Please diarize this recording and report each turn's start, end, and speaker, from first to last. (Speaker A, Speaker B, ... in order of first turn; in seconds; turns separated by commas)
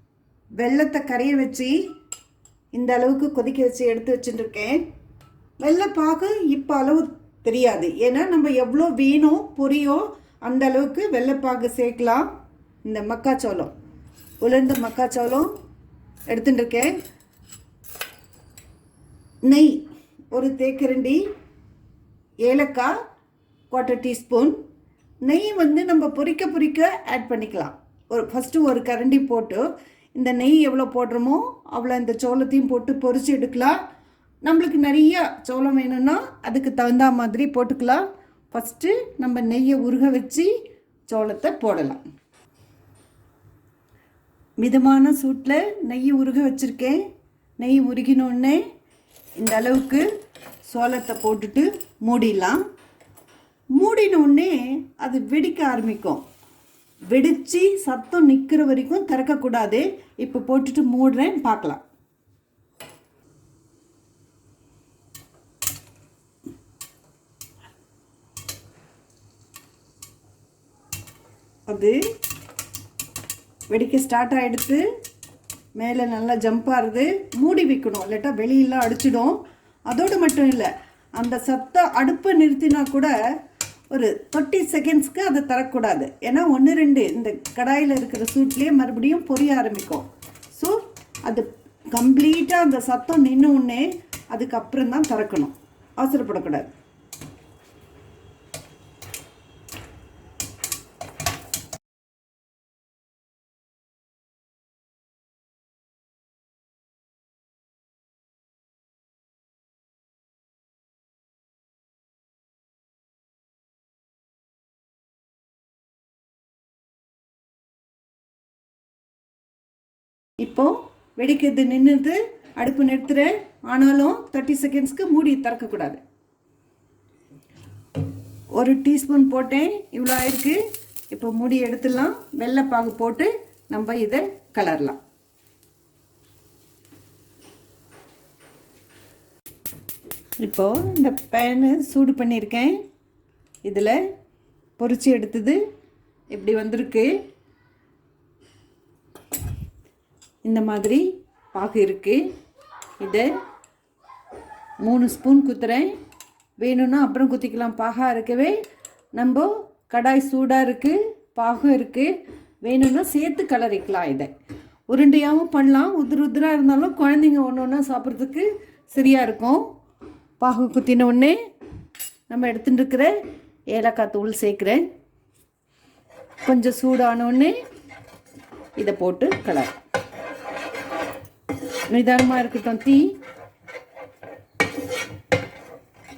Speaker A: 0.6-1.8, Speaker A: 2.7-4.8, Speaker A: 5.6-12.3, Speaker A: 12.8-13.7, Speaker A: 14.4-15.5, Speaker A: 16.3-16.9, Speaker A: 19.5-19.8, Speaker A: 20.3-21.2, Speaker A: 22.4-22.9, Speaker A: 23.7-24.5, Speaker A: 25.2-29.6, Speaker A: 30.1-33.7, Speaker A: 34.4-40.5, Speaker A: 41.1-42.0, Speaker A: 44.6-47.0, Speaker A: 47.6-48.6, Speaker A: 49.4-50.0, Speaker A: 50.7-52.6, Speaker A: 53.8-56.2, Speaker A: 57.1-61.8, Speaker A: 71.7-72.0, Speaker A: 73.7-74.8, Speaker A: 75.8-83.1, Speaker A: 83.9-96.7, Speaker A: 120.4-126.0, Speaker A: 128.5-130.6, Speaker A: 131.1-135.0, Speaker A: 140.4-142.8, Speaker A: 143.6-144.0, Speaker A: 144.8-145.6, Speaker A: 146.3-147.1, Speaker A: 150.4-152.2, Speaker A: 153.0-153.3, Speaker A: 154.8-155.9, Speaker A: 156.6-158.6, Speaker A: 159.1-162.1, Speaker A: 162.6-164.3, Speaker A: 164.9-169.6, Speaker A: 170.4-171.4, Speaker A: 172.3-173.1, Speaker A: 173.7-174.8, Speaker A: 176.4-177.5, Speaker A: 178.8-179.7, Speaker A: 181.9-183.1